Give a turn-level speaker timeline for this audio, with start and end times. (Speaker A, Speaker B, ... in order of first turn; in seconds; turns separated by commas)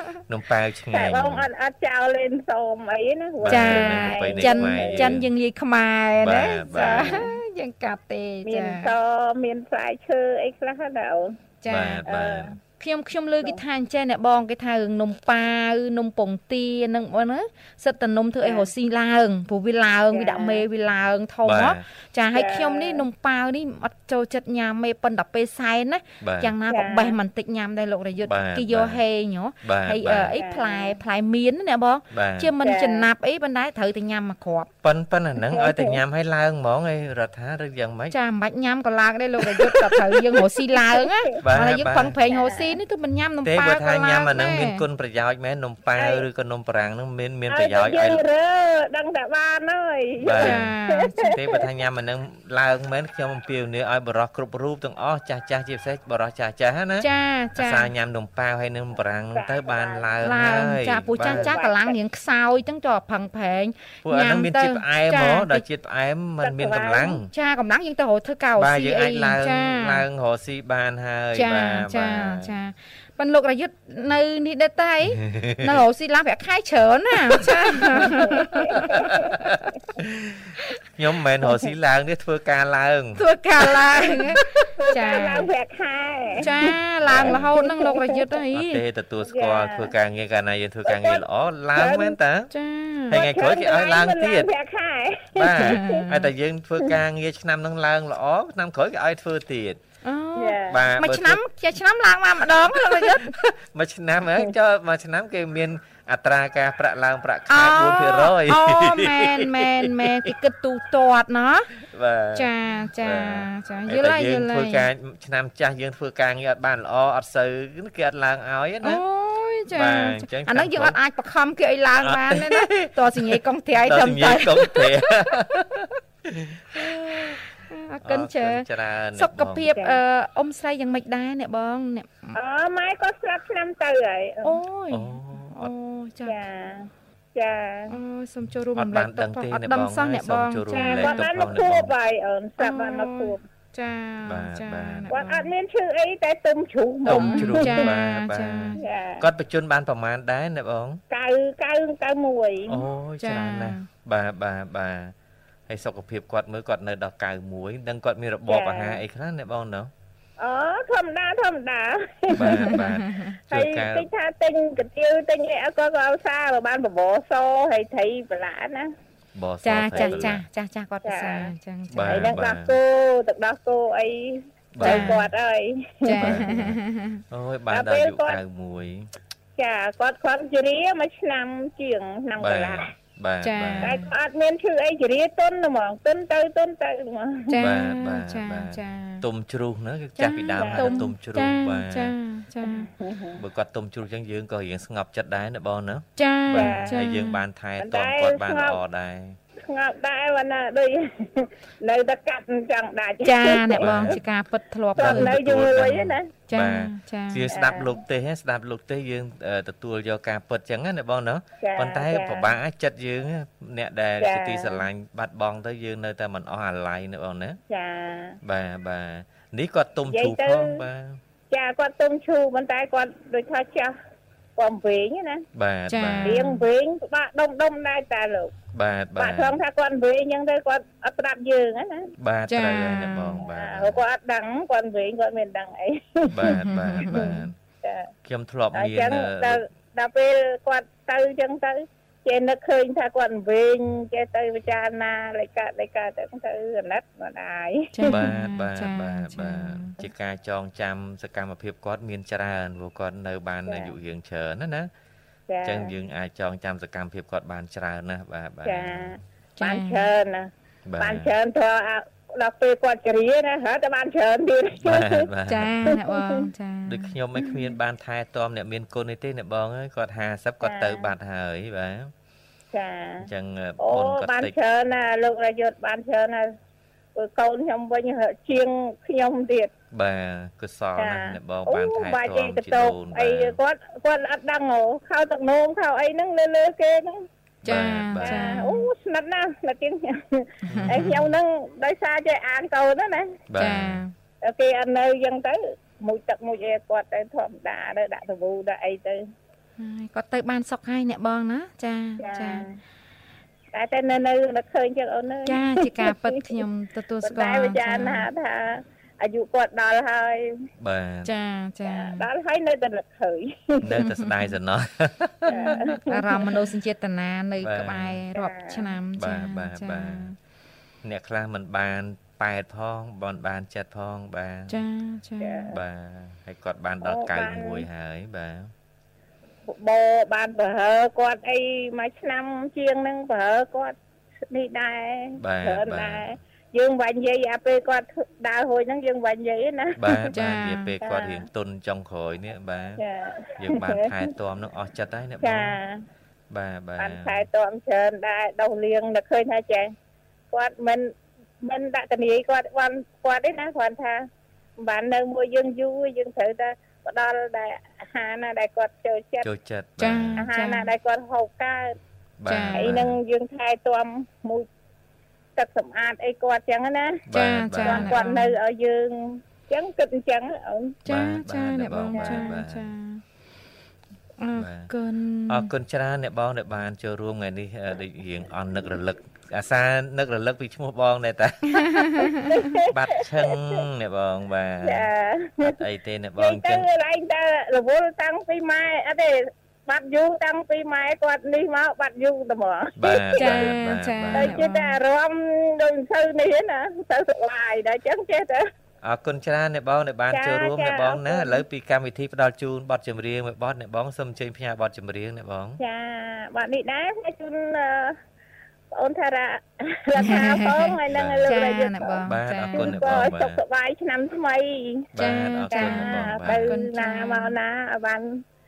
Speaker A: 0.3-1.5, Speaker B: 0.9-5.1, Speaker A: 3.4-5.3, Speaker C: 3.5-8.9, Speaker A: 6.2-7.3, Speaker B: 6.7-7.3, Speaker B: 8.5-11.4, Speaker C: 11.6-12.0, Speaker A: 11.7-12.6, Speaker B: 12.1-12.6, Speaker C: 12.8-34.7, Speaker B: 18.4-18.7, Speaker B: 20.1-20.6, Speaker A: 21.4-21.8, Speaker B: 22.3-23.0, Speaker A: 26.2-26.5, Speaker B: 26.7-27.2, Speaker A: 28.3-29.0, Speaker A: 29.6-30.3, Speaker B: 30.4-31.0, Speaker A: 32.1-32.5, Speaker B: 32.6-33.1, Speaker A: 34.8-38.1, Speaker B: 35.5-36.0, Speaker C: 38.1-44.8, Speaker A: 41.4-42.1, Speaker B: 42.3-42.8, Speaker A: 43.5-48.2, Speaker B: 46.0-46.2, Speaker B: 47.5-51.3, Speaker A: 50.2-61.5, Speaker C: 50.4-51.3, Speaker C: 57.0-57.9, Speaker B: 59.3-60.1, Speaker C: 60.2-65.6, Speaker B: 61.2-62.0, Speaker A: 64.0-67.3, Speaker B: 66.4-67.2, Speaker C: 67.3-70.0, Speaker A: 68.6-72.5, Speaker C: 71.3-79.5, Speaker A: 75.1-75.8, Speaker B: 78.3-79.3, Speaker A: 79.0-84.7, Speaker C: 83.2-85.5, Speaker B: 84.8-86.5, Speaker C: 86.4-88.8, Speaker A: 87.0-87.5, Speaker B: 87.2-88.1, Speaker A: 88.5-92.5, Speaker B: 89.3-89.9, Speaker B: 90.9-91.2, Speaker B: 91.8-92.2, Speaker C: 92.5-93.2, Speaker A: 93.1-94.5, Speaker B: 93.1-96.1, Speaker A: 95.3-99.8, Speaker C: 95.6-96.1, Speaker C: 100.0-103.3, Speaker B: 100.4-100.8, Speaker A: 100.7-101.4, Speaker A: 102.5-110.3, Speaker C: 107.5-111.7, Speaker A: 111.7-119.0, Speaker C: 112.3-114.9, Speaker C: 118.8-124.9, Speaker A: 119.7-121.0, Speaker A: 122.0-127.4, Speaker C: 126.7-132.4, Speaker A: 128.0-129.7, Speaker B: 129.8-130.0, Speaker B: 132.3-134.6, Speaker C: 134.4-136.4, Speaker A: 134.9-135.7, Speaker B: 136.3-137.9, Speaker C: 137.9-141.3, Speaker A: 138.8-141.9, Speaker B: 140.7-143.4, Speaker C: 142.6-145.5, Speaker A: 144.2-145.2, Speaker B: 145.1-147.8, Speaker A: 147.1-151.0, Speaker C: 147.1-148.8, Speaker B: 148.8-149.2, Speaker B: 151.1-152.8, Speaker A: 152.7-155.1, Speaker C: 153.2-153.9, Speaker A: 155.7-159.9, Speaker B: 158.5-159.0, Speaker B: 160.4-162.8, Speaker A: 162.3-164.1, Speaker C: 162.4-163.3, Speaker B: 163.5-168.9, Speaker A: 169.3-170.4, Speaker C: 169.7-172.3, Speaker B: 169.9-170.2, Speaker B: 171.1-171.5, Speaker A: 171.9-172.8, Speaker B: 172.1-176.4, Speaker A: 174.7-175.3, Speaker C: 174.8-175.2, Speaker C: 176.1-177.2, Speaker A: 176.2-176.8, Speaker A: 177.3-179.1, Speaker B: 177.7-178.4, Speaker B: 179.6-182.9, Speaker A: 182.4-184.0, Speaker C: 183.4-184.1, Speaker B: 183.8-187.6, Speaker C: 187.5-189.2, Speaker A: 187.6-192.2, Speaker C: 190.2-192.9, Speaker B: 190.6-190.9, Speaker B: 192.6-193.4, Speaker A: 193.4-199.4, Speaker C: 196.2-197.4, Speaker B: 196.5-197.0, Speaker B: 197.8-198.8, Speaker B: 199.7-204.2, Speaker C: 203.2-205.3, Speaker A: 203.8-204.2, Speaker A: 205.0-217.6, Speaker B: 205.0-206.3, Speaker C: 206.5-207.4, Speaker B: 207.5-208.0, Speaker B: 211.6-212.5, Speaker B: 214.2-214.8, Speaker B: 217.7-218.4, Speaker A: 218.4-221.2, Speaker B: 220.1-220.8, Speaker B: 221.5-223.9, Speaker B: 224.6-225.4, Speaker A: 225.5-226.4, Speaker C: 225.9-226.6, Speaker B: 226.2-228.5, Speaker A: 228.7-229.6, Speaker B: 229.2-232.1, Speaker A: 232.2-234.0, Speaker C: 232.5-233.4, Speaker B: 233.5-238.1, Speaker A: 236.3-237.6, Speaker C: 236.4-237.4, Speaker A: 238.2-239.7, Speaker B: 238.7-248.1, Speaker C: 247.9-249.9, Speaker A: 248.1-254.9, Speaker B: 253.7-253.9, Speaker B: 255.5-255.9, Speaker A: 255.6-259.1, Speaker B: 258.6-265.3, Speaker C: 259.6-260.1, Speaker A: 260.9-261.3, Speaker A: 264.8-265.9, Speaker C: 265.5-267.1, Speaker A: 266.9-272.1, Speaker B: 270.6-271.1, Speaker B: 272.7-273.3, Speaker A: 273.2-274.5, Speaker B: 273.8-276.6, Speaker B: 277.1-279.7, Speaker A: 279.9-283.6, Speaker B: 281.0-287.3, Speaker A: 287.6-288.6, Speaker C: 287.7-288.9, Speaker B: 288.2-293.3, Speaker A: 290.7-291.4, Speaker C: 290.7-291.0, Speaker A: 293.5-294.0, Speaker C: 293.6-294.1, Speaker B: 294.4-299.2, Speaker C: 299.8-302.6, Speaker B: 302.2-302.7, Speaker B: 303.7-306.1, Speaker C: 305.5-308.3, Speaker B: 307.2-310.6, Speaker A: 310.8-311.3, Speaker C: 311.2-312.2, Speaker B: 311.9-313.8, Speaker A: 313.8-315.8, Speaker C: 313.9-314.3, Speaker B: 315.5-316.5, Speaker C: 315.5-320.4, Speaker A: 317.6-318.2, Speaker B: 318.4-318.8, Speaker A: 319.2-320.3, Speaker A: 321.0-324.8, Speaker C: 324.7-325.7, Speaker B: 325.4-325.8, Speaker A: 325.7-328.7, Speaker B: 327.0-327.9, Speaker B: 329.7-333.9, Speaker B: 334.5-340.3, Speaker A: 335.4-336.4, Speaker A: 340.0-343.0, Speaker C: 340.3-340.9, Speaker B: 341.0-341.5, Speaker B: 343.0-344.2, Speaker A: 343.6-345.8, Speaker B: 345.4-346.0, Speaker A: 346.5-347.5, Speaker B: 347.0-349.9, Speaker B: 350.5-351.1, Speaker B: 351.6-354.2, Speaker B: 354.8-359.5, Speaker A: 359.4-360.4, Speaker C: 360.0-360.9, Speaker B: 360.4-362.0, Speaker A: 362.4-363.2, Speaker C: 362.5-362.9, Speaker B: 362.7-364.7, Speaker B: 365.6-367.2, Speaker A: 367.3-368.2, Speaker C: 367.3-368.6, Speaker B: 367.8-371.0, Speaker C: 371.1-373.2, Speaker A: 371.1-372.9, Speaker B: 372.1-372.5, Speaker C: 374.4-375.7, Speaker A: 374.6-374.9, Speaker A: 375.5-382.3, Speaker C: 381.7-382.8, Speaker B: 382.5-383.6, Speaker A: 382.9-385.1, Speaker B: 384.8-385.8, Speaker A: 385.6-386.9, Speaker B: 386.4-393.7, Speaker A: 393.0-394.6, Speaker C: 393.4-395.0, Speaker B: 394.4-398.6, Speaker A: 399.0-405.8, Speaker B: 400.3-401.6, Speaker B: 405.8-408.2, Speaker B: 408.9-415.1, Speaker C: 410.2-410.9, Speaker A: 411.1-411.4, Speaker C: 411.5-412.9, Speaker A: 412.3-413.6, Speaker A: 415.1-416.7, Speaker C: 415.2-417.5, Speaker B: 415.7-418.3